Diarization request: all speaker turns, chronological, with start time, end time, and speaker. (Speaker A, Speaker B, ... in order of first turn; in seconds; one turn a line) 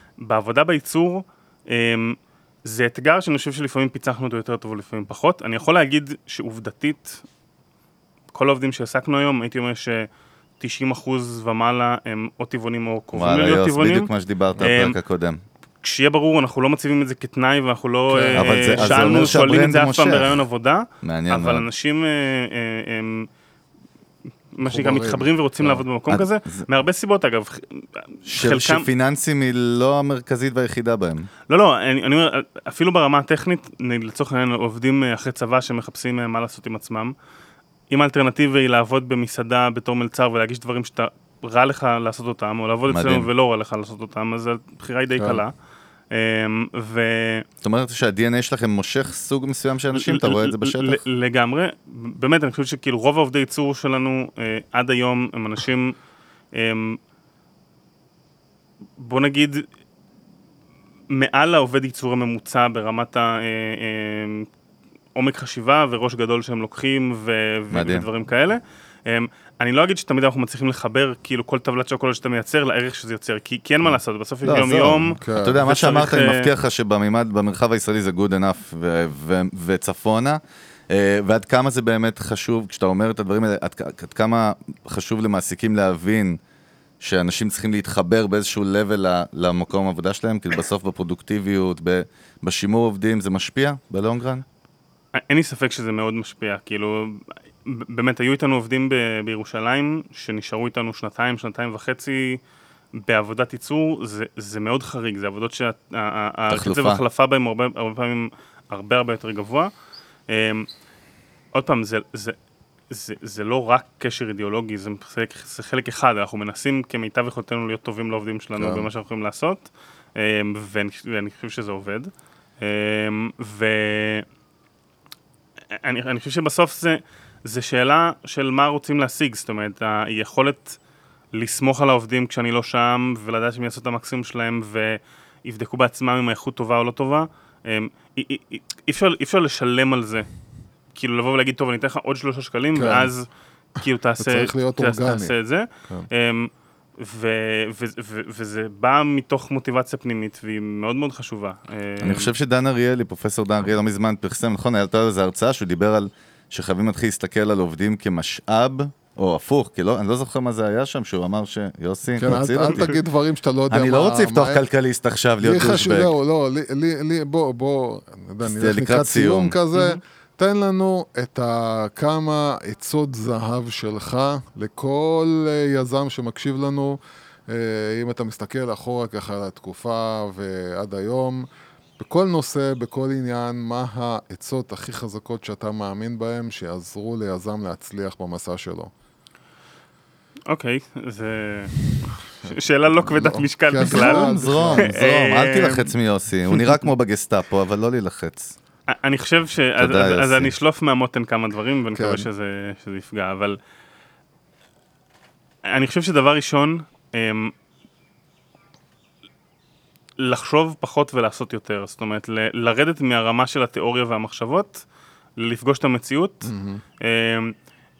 Speaker A: 0.2-7.2
Speaker A: 8.3-10.1
Speaker A: 10.6-14.9
Speaker B: 13.1-15.4
Speaker A: 15.8-23.3
Speaker C: 18.1-19.6
Speaker B: 18.4-20.4
Speaker B: 21.0-21.7
Speaker A: 24.6-28.9
Speaker C: 24.6-25.8
Speaker B: 26.1-26.6
Speaker B: 28.3-31.3
Speaker A: 31.5-37.1
Speaker A: 37.9-45.5
Speaker B: 42.9-43.3
Speaker C: 45.1-45.4
Speaker A: 46.1-47.5
Speaker B: 47.6-51.0
Speaker A: 50.0-56.0
Speaker A: 56.5-57.0
Speaker A: 59.0-59.7
Speaker A: 61.1-64.5
Speaker A: 65.2-76.5
Speaker B: 67.7-68.1
Speaker B: 74.4-86.4
Speaker C: 75.2-75.6
Speaker B: 87.0-94.4
Speaker A: 95.2-102.4
Speaker A: 103.0-109.7
Speaker B: 106.5-107.0
Speaker A: 110.3-110.7
Speaker A: 111.5-112.4
Speaker A: 112.9-124.2
Speaker C: 118.6-118.9
Speaker A: 125.8-130.8
Speaker A: 131.4-140.3
Speaker A: 140.9-143.3
Speaker C: 142.7-143.1
Speaker A: 143.8-152.3
Speaker C: 144.2-145.3
Speaker B: 152.0-162.9
Speaker C: 162.2-164.6
Speaker A: 162.6-163.0
Speaker B: 163.7-166.1
Speaker C: 165.4-181.4
Speaker B: 168.4-169.6
Speaker A: 169.7-170.0
Speaker C: 182.0-188.9
Speaker A: 190.5-191.9
Speaker C: 192.4-194.9
Speaker A: 192.4-195.9
Speaker B: 193.8-198.5
Speaker A: 198.9-203.6
Speaker B: 199.8-200.5
Speaker C: 201.9-202.3
Speaker A: 205.7-207.5
Speaker A: 210.2-214.8
Speaker A: 215.4-217.5
Speaker C: 216.4-216.8